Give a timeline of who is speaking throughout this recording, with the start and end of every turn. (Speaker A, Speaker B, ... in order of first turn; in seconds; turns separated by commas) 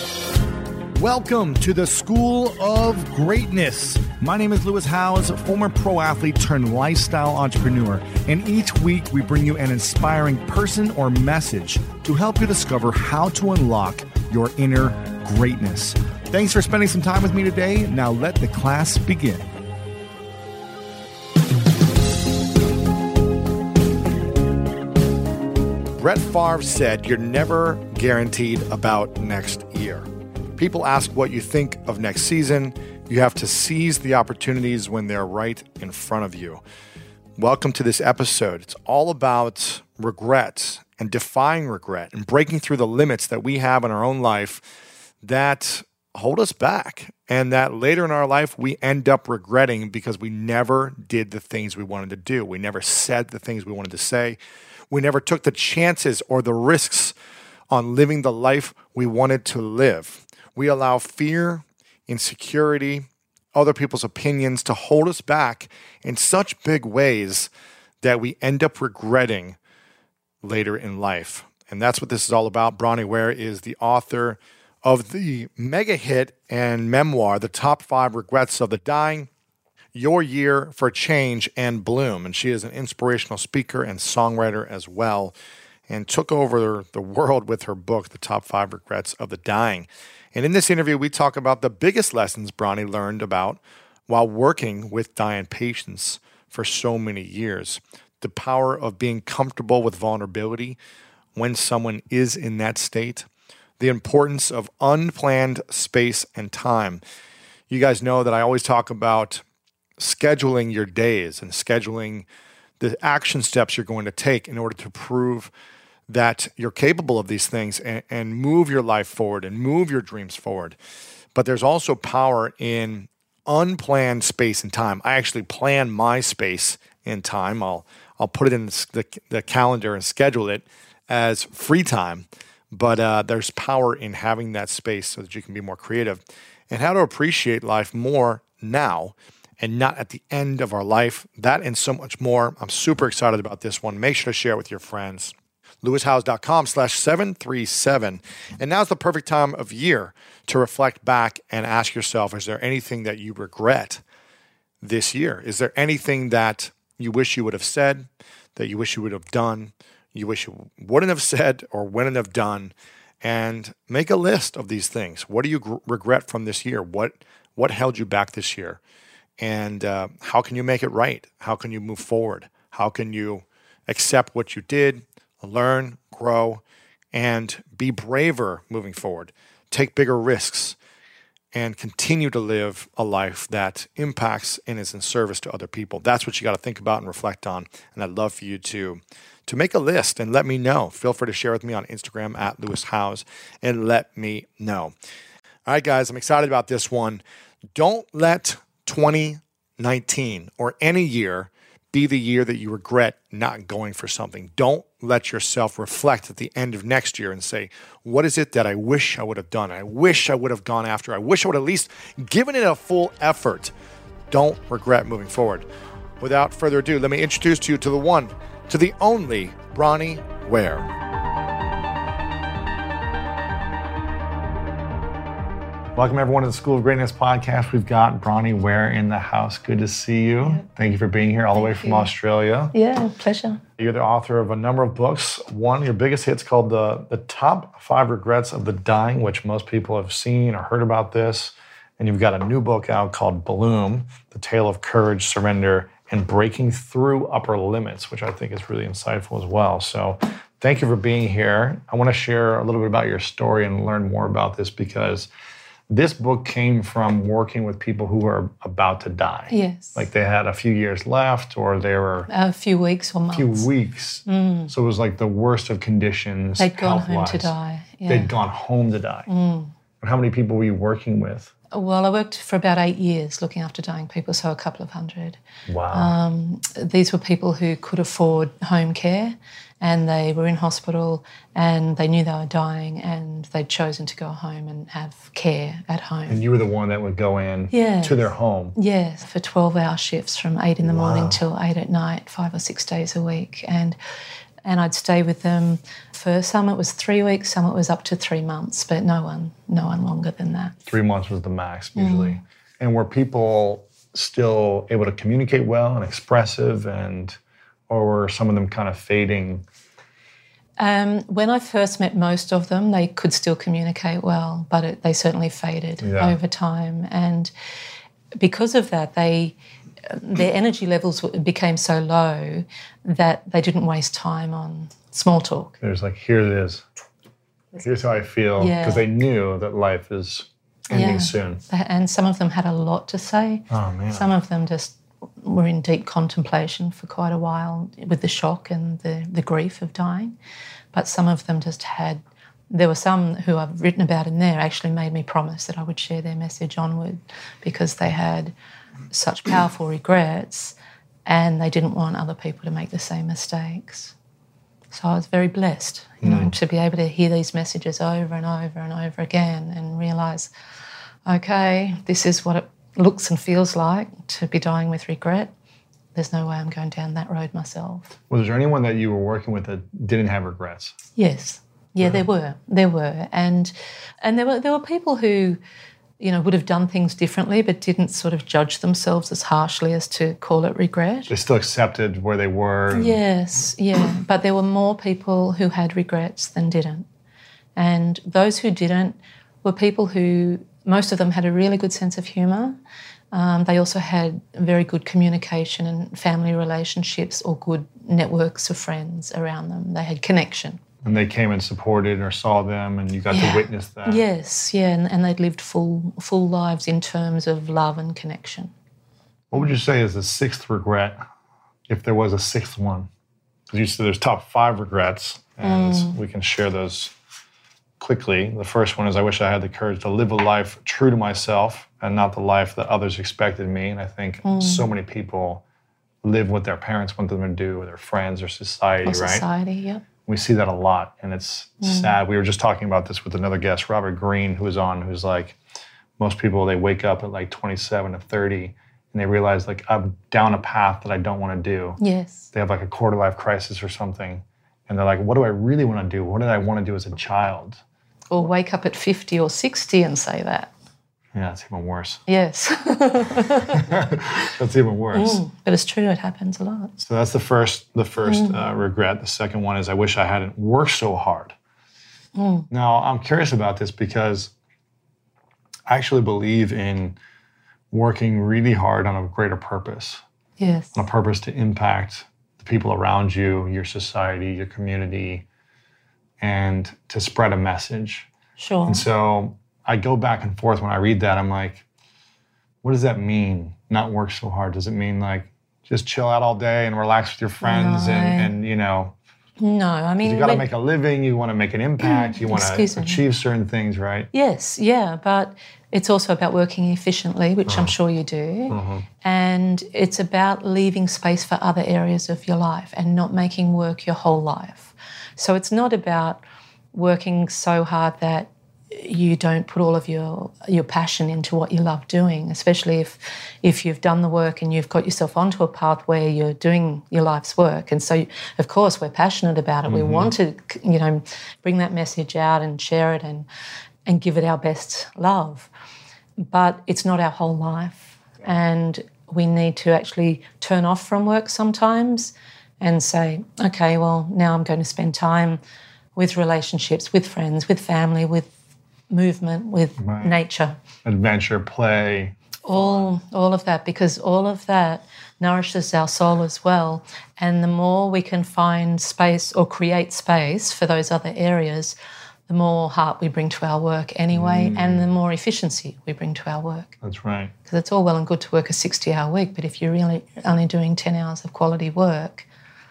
Speaker A: 0.9-19.5, Speaker A: 26.0-36.6, Speaker A: 37.4-44.6, Speaker A: 45.2-54.4, Speaker A: 54.9-57.1, Speaker A: 57.7-67.5, Speaker A: 68.0-69.6, Speaker A: 70.4-79.3, Speaker A: 79.9-85.3, Speaker A: 85.9-100.8, Speaker A: 101.3-103.3, Speaker A: 103.8-107.0, Speaker A: 107.7-109.4, Speaker A: 110.0-112.2, Speaker A: 112.8-115.5, Speaker A: 116.1-120.8, Speaker A: 121.3-154.0, Speaker A: 154.8-168.8, Speaker A: 169.4-176.6, Speaker A: 177.1-180.8, Speaker A: 181.5-194.9, Speaker A: 195.7-197.2, Speaker A: 197.7-213.7, Speaker A: 214.3-215.7, Speaker A: 216.2-220.9, Speaker A: 225.9-232.7, Speaker B: 231.5-232.1, Speaker B: 232.7-233.6, Speaker A: 233.8-255.3, Speaker A: 255.9-262.3, Speaker B: 259.5-260.0, Speaker B: 262.3-263.7, Speaker A: 263.3-267.5, Speaker B: 264.2-264.7, Speaker B: 266.6-268.3, Speaker A: 268.1-269.3, Speaker B: 269.3-269.7, Speaker A: 270.0-271.5, Speaker B: 271.7-275.4, Speaker A: 275.7-276.1, Speaker B: 275.9-286.4, Speaker A: 286.3-288.8, Speaker B: 287.7-294.0, Speaker A: 290.8-291.4, Speaker B: 294.6-300.8, Speaker A: 300.9-307.4, Speaker B: 301.9-302.4, Speaker A: 307.9-309.6, Speaker B: 310.8-317.5, Speaker A: 316.0-316.4, Speaker B: 318.4-325.8, Speaker A: 325.8-326.8, Speaker A: 327.8-331.6, Speaker B: 328.6-329.0, Speaker B: 330.9-340.4, Speaker A: 333.7-334.3, Speaker B: 340.9-348.5, Speaker B: 349.1-350.7, Speaker B: 351.2-354.1, Speaker B: 354.9-360.5, Speaker A: 356.2-356.5, Speaker B: 361.2-365.5, Speaker B: 366.1-368.1, Speaker A: 368.3-370.9, Speaker B: 371.1-375.6, Speaker B: 376.2-381.3, Speaker A: 381.3-383.2, Speaker B: 382.9-387.1, Speaker B: 387.8-392.8, Speaker B: 393.3-400.8, Speaker A: 401.0-404.2, Speaker B: 403.3-408.7, Speaker A: 409.5-411.2, Speaker A: 411.9-413.1, Speaker A: 413.7-417.1, Speaker B: 415.6-416.2, Speaker A: 418.0-425.6, Speaker B: 424.4-424.9, Speaker A: 426.2-429.4, Speaker B: 429.0-430.0, Speaker A: 430.2-435.6, Speaker B: 431.8-432.1, Speaker A: 436.2-442.0, Speaker B: 442.0-442.5, Speaker A: 442.5-447.8, Speaker B: 448.3-450.7, Speaker A: 451.3-452.2, Speaker B: 452.3-453.9, Speaker A: 453.7-455.4, Speaker B: 455.1-456.9, Speaker A: 457.0-461.6, Speaker B: 458.2-458.6, Speaker B: 462.3-462.7, Speaker A: 462.7-464.5, Speaker A: 465.9-467.2, Speaker A: 467.9-470.2, Speaker B: 470.6-470.9, Speaker A: 470.9-475.4, Speaker A: 476.4-478.3, Speaker B: 478.6-479.1, Speaker A: 478.9-481.8, Speaker A: 482.8-489.1, Speaker B: 487.6-488.5, Speaker B: 489.6-490.7, Speaker A: 490.2-494.3, Speaker B: 492.0-493.2, Speaker B: 494.3-506.4, Speaker A: 497.7-497.9, Speaker A: 498.7-499.1, Speaker B: 506.9-523.5, Speaker A: 519.9-520.3, Speaker B: 524.0-525.7, Speaker B: 526.4-535.6, Speaker B: 536.1-538.5, Speaker B: 539.1-540.8, Speaker A: 540.0-540.4, Speaker A: 541.0-542.4, Speaker B: 542.6-551.9, Speaker B: 552.5-557.0, Speaker A: 554.3-555.1, Speaker A: 557.0-557.5, Speaker B: 557.6-562.5